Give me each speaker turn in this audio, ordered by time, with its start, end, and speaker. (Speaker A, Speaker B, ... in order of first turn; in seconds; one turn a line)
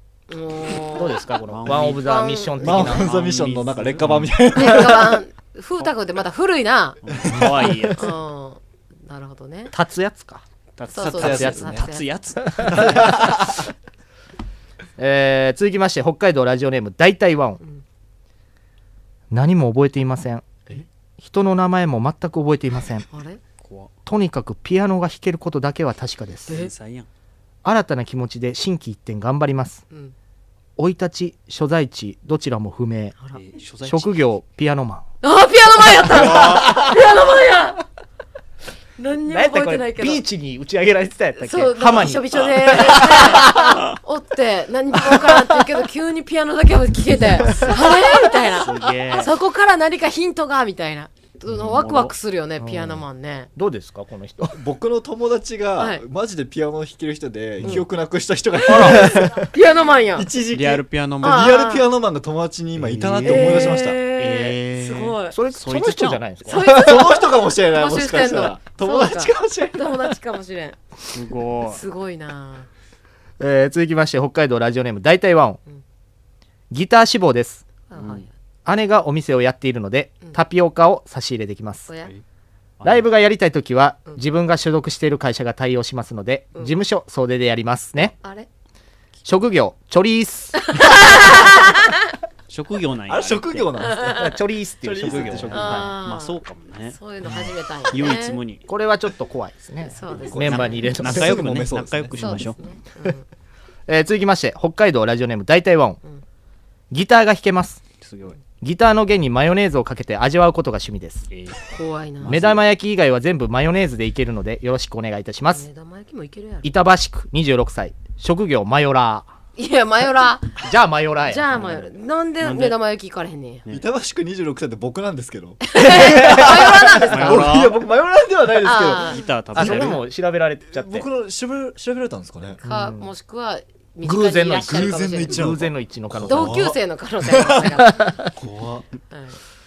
Speaker A: 0.3-1.2
Speaker B: 0.9-3.1
Speaker C: 1.4-4.7
Speaker A: 1.8-3.0
Speaker D: 2.6-5.2
Speaker A: 4.5-7.0
Speaker C: 7.1-8.1
Speaker D: 7.2-7.7
Speaker A: 8.0-9.7
Speaker B: 9.7-10.4
Speaker C: 10.8-13.5
Speaker A: 10.9-12.7
Speaker D: 11.0-11.9
Speaker B: 11.3-11.5
Speaker D: 12.8-13.4
Speaker B: 15.0-17.6
Speaker B: 19.3-20.6
Speaker B: 21.2-23.1
Speaker A: 23.1-23.4
Speaker C: 23.6-23.9
Speaker B: 24.1-26.6
Speaker C: 26.5-27.1
Speaker B: 27.6-29.8
Speaker B: 30.8-33.2
Speaker C: 33.3-34.2
Speaker B: 33.8-35.0
Speaker A: 35.2-37.8
Speaker C: 36.1-36.8
Speaker A: 39.0-40.2
Speaker B: 39.3-43.5
Speaker A: 41.4-53.5
Speaker C: 48.5-49.3
Speaker C: 51.6-52.1
Speaker B: 52.6-53.0
Speaker B: 53.6-54.6
Speaker D: 54.5-59.5
Speaker A: 55.8-56.0
Speaker A: 58.6-60.3
Speaker B: 58.6-59.3
Speaker D: 60.2-64.0
Speaker C: 60.5-61.5
Speaker A: 61.2-61.9
Speaker C: 62.9-66.3
Speaker A: 63.2-65.3
Speaker B: 65.3-66.7
Speaker A: 66.5-70.8
Speaker D: 66.5-70.1
Speaker C: 71.1-71.8
Speaker A: 71.7-72.7
Speaker B: 73.4-75.6
Speaker B: 76.7-77.6
Speaker A: 77.9-78.3
Speaker C: 77.9-78.3
Speaker B: 78.7-81.9
Speaker C: 82.8-83.0
Speaker B: 82.8-88.1
Speaker A: 88.2-88.5
Speaker B: 89.3-90.7
Speaker A: 90.7-91.9
Speaker C: 92.5-93.8
Speaker D: 93.1-94.2
Speaker A: 93.8-94.3
Speaker B: 94.2-95.9
Speaker D: 94.8-95.8
Speaker C: 95.0-98.7
Speaker A: 95.5-98.4
Speaker B: 98.7-101.5
Speaker A: 99.9-101.0
Speaker D: 100.1-102.5
Speaker C: 100.4-102.6
Speaker A: 102.2-103.2
Speaker B: 103.9-106.0
Speaker B: 106.9-107.8
Speaker C: 108.0-108.4
Speaker B: 108.6-111.3
Speaker C: 111.3-111.6
Speaker A: 111.7-112.4
Speaker C: 112.2-112.7
Speaker B: 112.2-115.7
Speaker A: 115.5-116.7
Speaker B: 116.6-119.3
Speaker A: 119.6-120.6
Speaker B: 120.6-121.8
Speaker A: 121.3-123.7
Speaker C: 121.6-121.8
Speaker C: 122.4-122.8
Speaker D: 123.7-129.2
Speaker A: 125.7-127.7
Speaker C: 127.1-127.8
Speaker A: 128.6-130.0
Speaker C: 128.9-130.0
Speaker B: 129.6-131.1
Speaker D: 130.7-132.6
Speaker B: 132.6-133.1
Speaker A: 132.7-135.4
Speaker B: 134.0-136.7
Speaker D: 134.6-137.7
Speaker A: 136.3-138.2
Speaker B: 137.8-138.3
Speaker D: 138.3-138.9
Speaker A: 139.1-139.4